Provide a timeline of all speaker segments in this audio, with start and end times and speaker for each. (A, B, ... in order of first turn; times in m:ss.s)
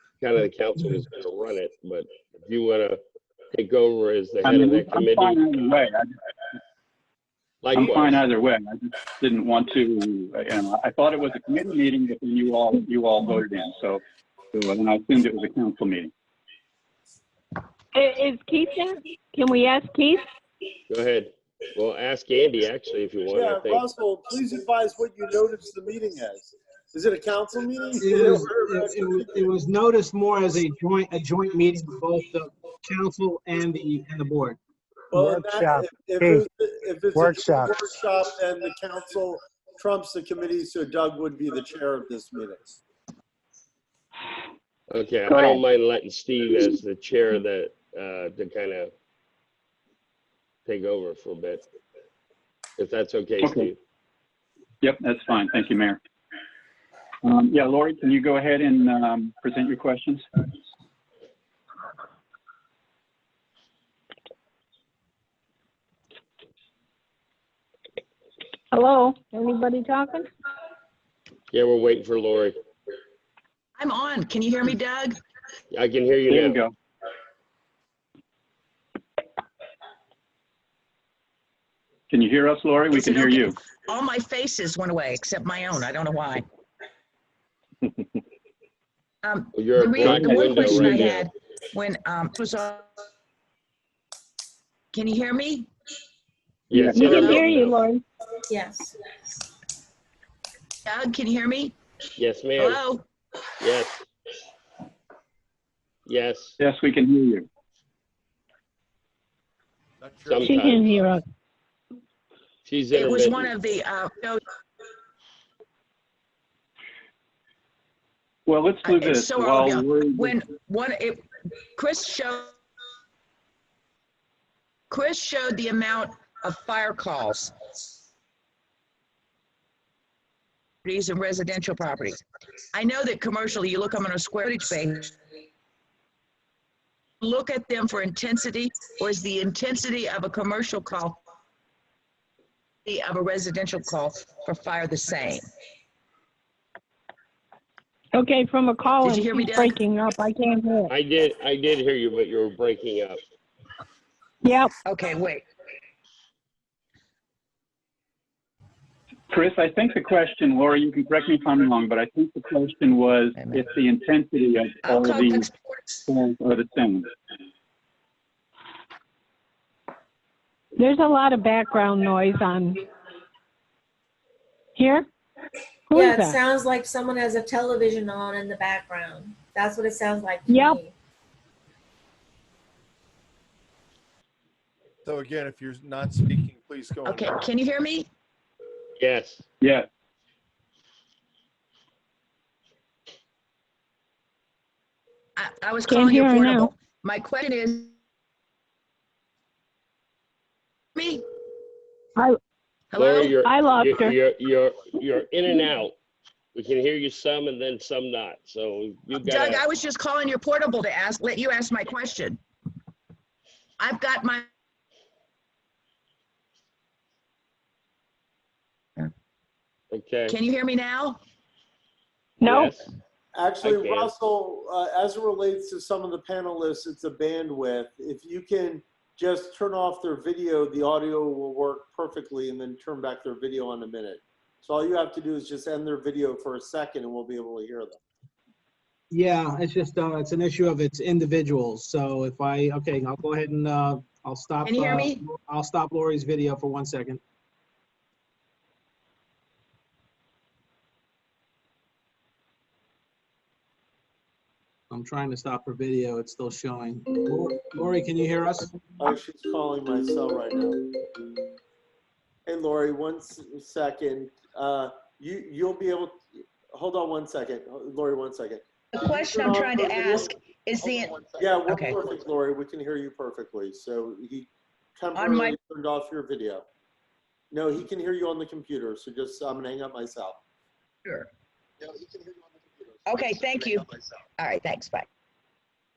0:00.2-0:03.0 A
0:03.5-0:05.5 A
0:04.4-0:06.1 B
0:07.6-0:08.2 A
0:07.8-0:14.0 B
0:14.5-0:16.1 B
0:17.9-0:20.2 C
0:20.9-0:23.8 A
0:23.3-0:29.3 D
0:28.0-0:34.6 E
0:35.1-0:42.8 D
0:35.1-0:36.4 E
0:37.1-0:37.8 E
0:44.9-0:48.9 A
0:50.7-0:51.6 A
0:52.8-0:53.8 A
0:53.4-0:53.7 B
0:54.8-0:56.0 B
0:57.2-1:00.2 B
1:08.7-1:10.3 C
1:11.5-1:12.6 A
1:13.8-1:15.2 F
1:15.7-1:16.6 A
1:16.3-1:16.7 B
1:22.1-1:23.6 B
1:22.9-1:26.4 F
1:29.2-1:32.8 F
1:29.5-1:31.3 A
1:30.0-1:31.1 B
1:34.9-1:35.7 F
1:36.7-1:37.9 A
1:36.7-1:37.3 B
1:37.0-1:38.0 C
1:38.5-1:39.1 G
1:40.8-1:41.8 F
1:42.2-1:42.8 A
1:42.6-1:43.0 F
1:43.6-1:44.0 A
1:46.1-1:46.6 A
1:46.6-1:47.5 B
1:50.0-1:51.2 H
1:50.3-1:50.9 A
1:50.4-1:51.2 C
1:52.6-1:53.6 A
1:52.9-1:54.4 F
1:58.5-2:00.4 B
1:58.8-2:02.5 F
2:04.9-2:07.5 F
2:10.8-2:12.2 F
2:12.7-2:15.1 F
2:17.2-2:21.2 F
2:22.8-2:25.4 F
2:28.1-2:30.9 C
2:29.0-2:29.8 F
2:30.9-2:33.2 A
2:34.4-2:34.7 C
2:34.8-2:35.4 F
2:39.3-2:45.5 B
2:43.4-2:43.6 F
2:44.8-2:45.9 F
2:46.1-2:47.1 B
2:50.8-2:52.8 C
2:54.8-2:55.1 C
2:55.9-2:56.4 C
2:55.9-3:00.9 G
3:00.5-3:00.8 C
3:05.0-3:07.4 H
3:07.0-3:08.1 F
3:09.0-3:09.4 A
3:09.6-3:09.9 B
3:15.4-3:17.9 F
3:15.9-3:16.7 C
3:20.9-3:21.2 F
3:22.9-3:23.4 F
3:23.0-3:25.9 A
3:23.4-3:24.2 C
3:26.5-3:29.7 A
3:29.2-3:32.4 F
3:33.8-3:34.5 F
3:39.9-3:40.4 A
3:40.3-3:41.2 F
3:42.4-3:42.7 C
3:42.4-3:42.9 A
3:43.3-3:58.0 D
3:43.6-3:44.1 A
3:59.1-4:07.2 E
4:04.6-4:05.2 F
4:14.9-4:18.8 E
4:19.0-4:20.9 D
4:22.4-4:30.3 D
4:28.9-4:32.0 F
4:31.3-4:36.6 D
4:35.1-4:35.6 F
4:37.5-4:40.4 D
4:43.0-4:45.1 F